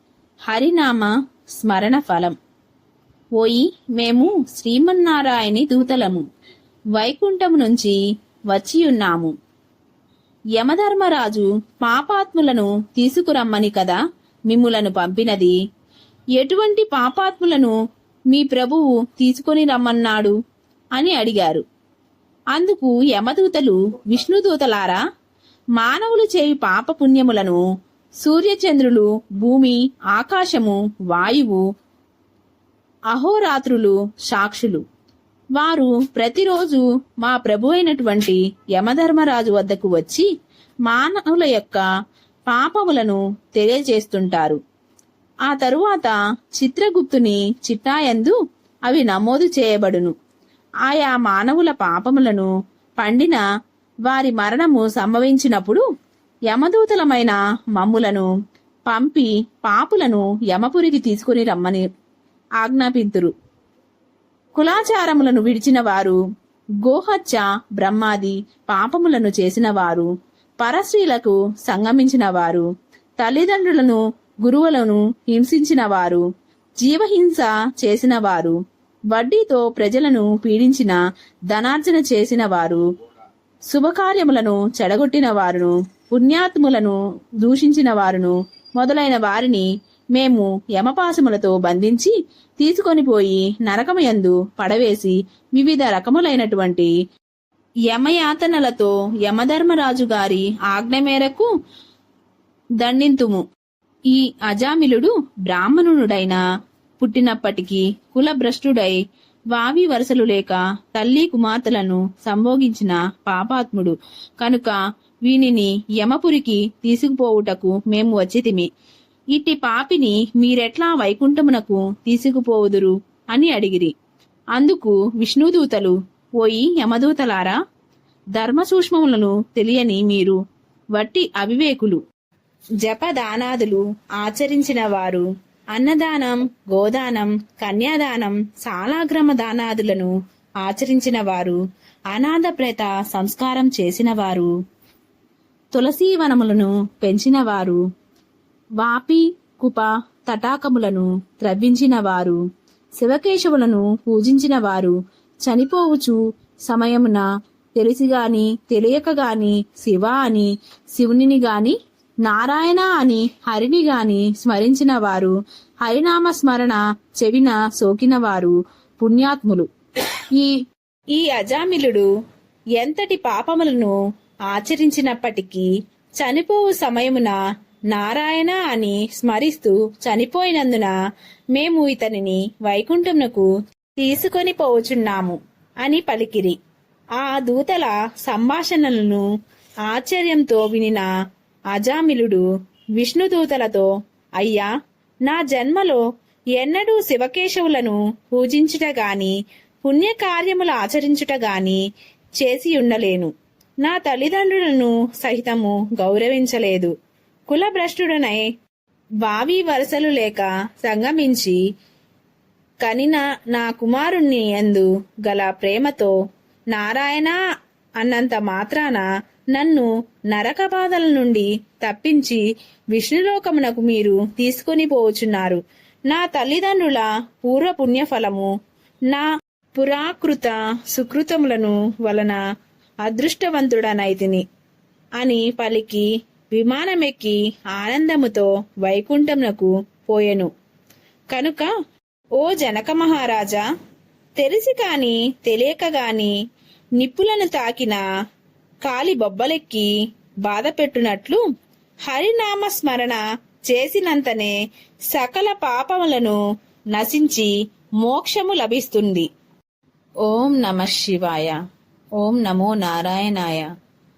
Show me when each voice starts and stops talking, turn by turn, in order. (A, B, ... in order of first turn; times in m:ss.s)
0:00.5-0:02.3 A
0:03.4-0:06.2 A
0:07.0-0:08.0 A
0:08.5-0:09.3 A
0:10.6-0:15.5 A
0:16.4-0:17.8 A
0:18.3-0:20.3 A
0:21.0-0:21.6 A
0:22.5-0:25.0 A
0:25.8-0:27.6 A
0:28.2-0:31.6 A
0:33.1-0:34.8 A
0:35.6-0:40.3 A
0:40.9-0:41.8 A
0:42.5-0:44.6 A
0:45.5-0:48.4 A
0:48.9-0:50.1 A
0:50.9-0:53.4 A
0:54.1-0:55.8 A
0:56.5-0:58.3 A
0:58.9-1:01.9 A
1:02.6-1:03.3 A
1:04.5-1:06.2 A
1:06.8-1:12.7 A
1:13.2-1:16.2 A
1:16.8-1:18.6 A
1:19.1-1:21.0 A
1:21.5-1:22.8 A
1:23.7-1:36.9 A
1:37.9-1:41.5 A
1:42.8-1:43.4 A
1:44.1-1:46.4 A
1:47.0-1:49.0 A
1:49.5-1:58.7 A
1:59.3-2:03.9 A
2:04.5-2:07.6 A
2:08.3-2:10.4 A
2:11.0-2:12.0 A
2:12.8-2:20.1 A
2:20.6-2:21.6 A
2:22.1-2:24.5 A
2:25.7-2:27.8 A
2:28.8-2:32.4 A
2:33.0-2:37.2 A
2:37.8-2:49.7 A
2:50.3-2:50.6 A
2:51.1-2:52.1 A
2:52.8-2:54.0 A
2:54.5-2:57.4 A
2:57.9-3:00.9 A
3:01.5-3:03.5 A
3:04.0-3:06.6 A
3:07.2-3:09.2 A
3:09.8-3:11.1 A
3:11.7-3:12.4 A
3:13.0-3:13.9 A
3:14.4-3:14.7 A
3:15.2-3:16.0 A
3:16.6-3:21.8 A
3:22.4-3:23.3 A
3:23.8-3:26.9 A
3:27.5-3:28.4 A
3:29.2-3:31.6 A
3:32.8-3:36.2 A
3:36.7-3:37.4 A
3:38.0-3:42.4 A
3:42.9-3:48.5 A
3:49.1-3:52.4 A
3:53.0-3:54.4 A
3:55.2-4:00.5 A
4:01.3-4:01.7 A
4:02.4-4:03.6 A
4:04.4-4:06.3 A
4:07.0-4:08.0 A
4:08.8-4:09.9 A
4:10.4-4:11.4 A
4:12.1-4:14.6 A
4:15.1-4:16.4 A
4:16.9-4:19.3 A
4:20.2-4:21.6 A
4:22.2-4:23.7 A